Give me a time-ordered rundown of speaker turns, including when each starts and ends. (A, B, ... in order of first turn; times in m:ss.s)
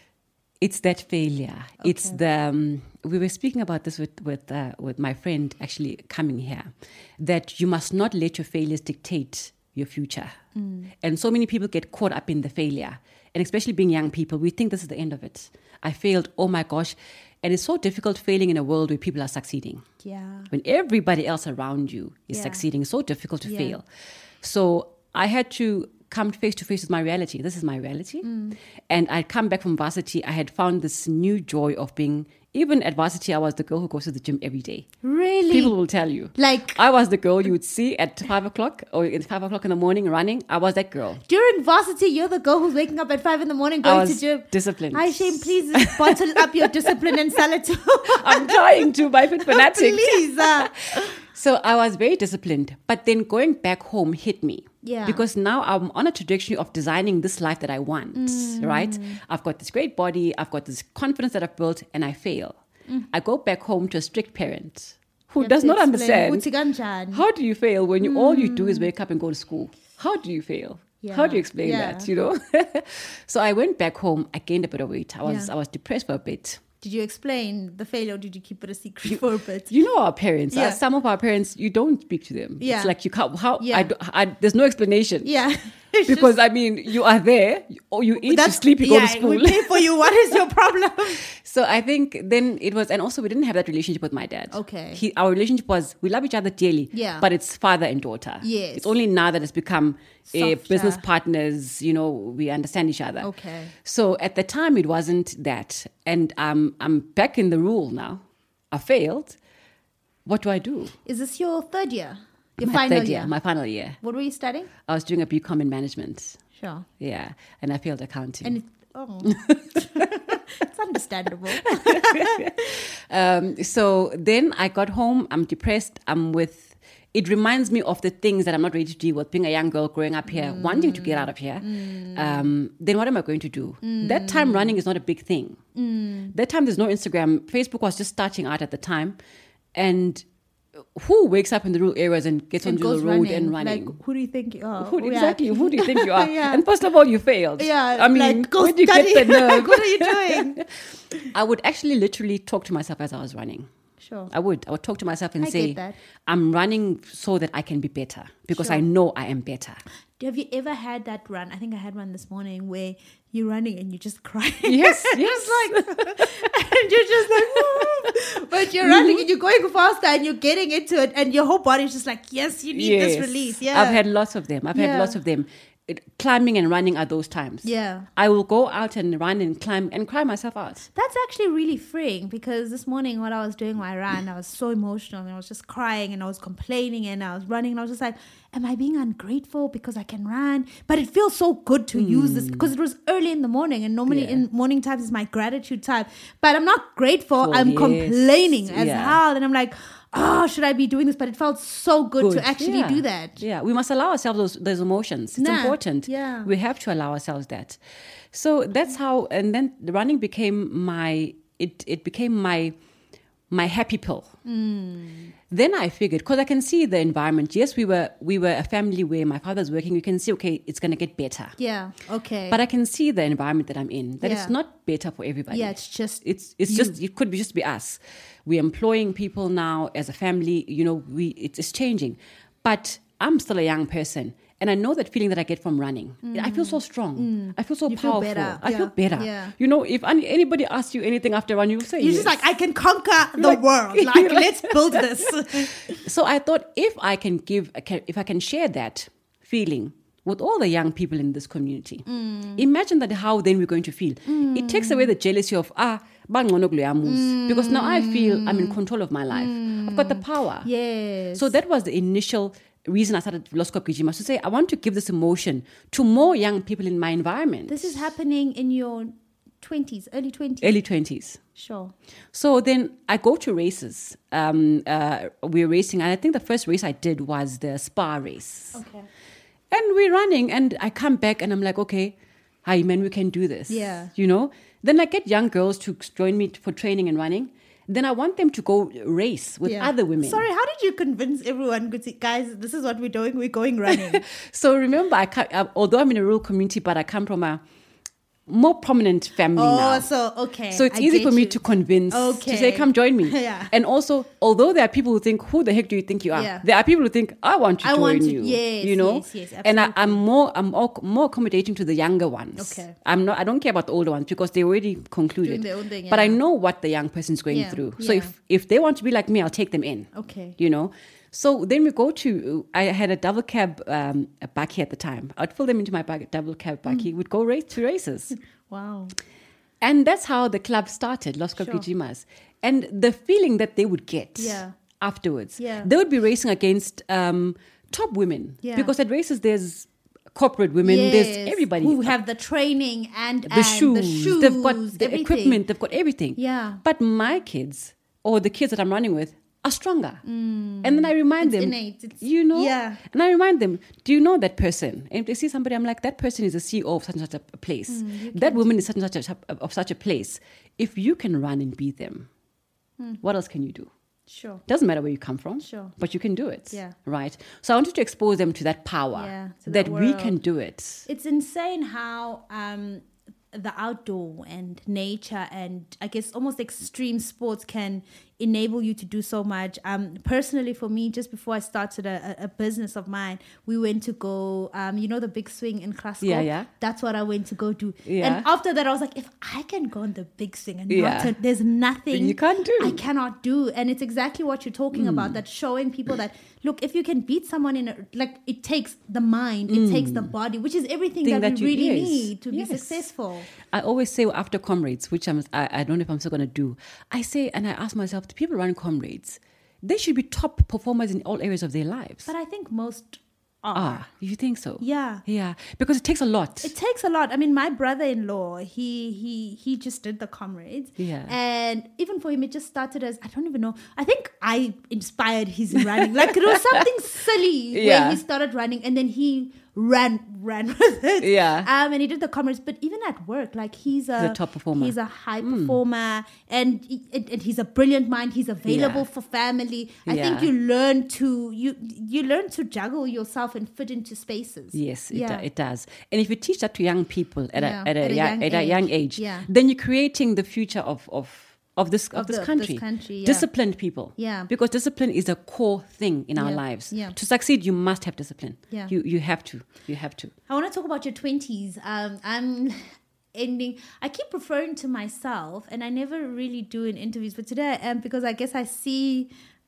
0:00.6-0:10.4 A
0:01.8-0:02.2 B
0:10.5-0:10.9 B
0:11.0-0:19.8 A
0:20.0-0:20.5 B
0:20.5-0:23.8 A
0:22.3-0:22.6 B
0:23.4-0:23.8 B
0:24.4-0:28.3 A
0:28.2-0:28.6 B
0:28.9-0:34.9 A
0:35.0-0:35.7 B
0:35.5-0:41.2 A
0:36.4-0:36.8 B
0:41.3-0:48.8 B
0:43.8-0:47.1 A
0:48.1-1:02.6 A
0:49.4-0:51.1 B
0:54.8-0:55.2 B
0:58.1-0:59.2 B
1:03.1-1:06.5 A
1:05.4-1:07.2 B
1:07.1-1:16.6 A
1:08.0-1:08.9 B
1:11.0-1:12.1 B
1:15.2-1:15.5 B
1:16.8-1:19.7 B
1:19.7-1:25.3 A
1:20.5-1:20.8 B
1:22.6-1:22.9 B
1:23.6-1:23.9 B
1:25.2-1:26.4 B
1:26.0-1:30.1 A
1:28.2-1:31.2 B
1:31.2-1:43.3 A
1:34.5-1:35.0 B
1:36.9-1:37.2 B
1:38.4-1:38.9 B
1:40.3-1:41.0 B
1:43.2-1:43.7 B
1:43.8-1:49.4 A
1:50.2-1:50.9 A
1:51.0-1:53.3 B
1:52.6-1:54.0 A
1:54.0-1:54.7 B
1:54.8-1:56.4 A
1:56.6-1:56.8 B
1:57.0-1:58.6 A
1:58.4-2:02.7 B
1:59.2-2:00.0 A
2:01.6-2:15.6 A
2:10.3-2:12.5 B
2:13.8-2:14.8 B
2:15.7-2:16.3 B
2:16.3-2:19.2 A
2:19.7-2:20.2 A
2:20.9-2:24.0 A
2:22.6-2:26.6 B
2:24.8-2:30.7 A
2:27.6-2:30.6 B
2:31.3-2:33.7 A
2:34.0-2:34.3 B
2:34.3-2:39.8 A
2:35.4-2:36.0 B
2:38.5-2:38.8 B
2:40.2-2:54.0 B
2:44.6-2:46.4 A
2:47.2-2:48.1 A
2:48.8-2:49.2 A
2:52.7-3:00.9 A
2:54.7-2:55.2 B
2:57.6-2:58.1 B
3:00.9-3:23.4 B
3:11.9-3:12.7 A
3:14.1-3:14.4 A
3:17.4-3:19.2 A
3:22.2-3:27.8 A
3:25.4-3:26.5 B
3:28.3-3:32.7 A
3:33.5-3:34.3 A
3:34.4-3:35.3 B
3:35.5-3:41.5 A
3:41.6-3:42.6 B
3:42.5-4:02.4 A
3:44.2-3:44.5 B
3:45.5-3:46.9 B
3:56.2-3:59.5 B
4:02.0-4:06.0 B
4:03.4-4:20.7 A
4:12.0-4:12.6 B
4:14.3-4:15.1 B
4:17.0-4:18.8 B
4:19.3-4:21.5 B
4:21.3-4:28.0 A
4:27.7-4:30.8 B
4:30.6-4:31.4 A
4:31.6-4:31.9 B
4:32.3-4:38.8 A
4:38.7-4:39.1 B
4:39.7-4:50.4 A
4:43.7-4:44.1 B
4:49.6-4:54.2 B
4:54.1-4:57.6 A
4:58.5-5:00.0 A
4:59.5-5:03.7 B
5:00.7-5:28.4 A
5:06.3-5:06.6 B
5:07.8-5:10.2 B
5:12.6-5:12.9 B
5:15.4-5:16.4 B
5:17.5-5:18.3 B
5:20.1-5:20.6 B
5:28.7-5:29.1 B
5:29.8-5:42.2 A
5:31.6-5:31.8 B
5:34.4-5:34.7 B
5:35.6-5:35.9 B
5:38.6-5:38.9 B
5:40.8-5:45.6 B
5:43.5-5:50.2 A
5:46.4-5:46.8 B
5:50.2-5:53.0 B
5:50.8-6:02.3 A
5:57.9-5:58.7 B
6:03.2-6:03.9 A
6:04.3-6:04.6 B
6:04.6-6:11.0 A
6:05.6-6:05.9 B
6:09.1-6:10.4 B
6:11.0-6:43.5 B
6:26.2-6:26.7 A
6:28.0-6:28.5 A
6:30.9-6:31.3 A
6:32.1-6:33.0 A
6:34.9-6:35.4 A
6:39.7-6:40.3 A
6:41.2-6:43.1 A
6:43.6-6:52.3 A
6:52.3-6:54.0 B
6:53.7-6:56.7 A
6:54.8-6:55.2 B
6:56.6-7:25.4 B
7:01.0-7:01.3 A
7:06.0-7:06.8 A
7:07.7-7:08.2 A
7:11.2-7:11.7 A
7:14.2-7:15.8 A
7:18.7-7:19.0 A
7:20.0-7:20.5 A
7:24.7-7:40.3 A
7:27.5-7:29.5 B
7:32.1-7:33.5 B
7:34.2-7:34.5 B
7:36.4-7:37.2 B
7:40.5-7:49.3 B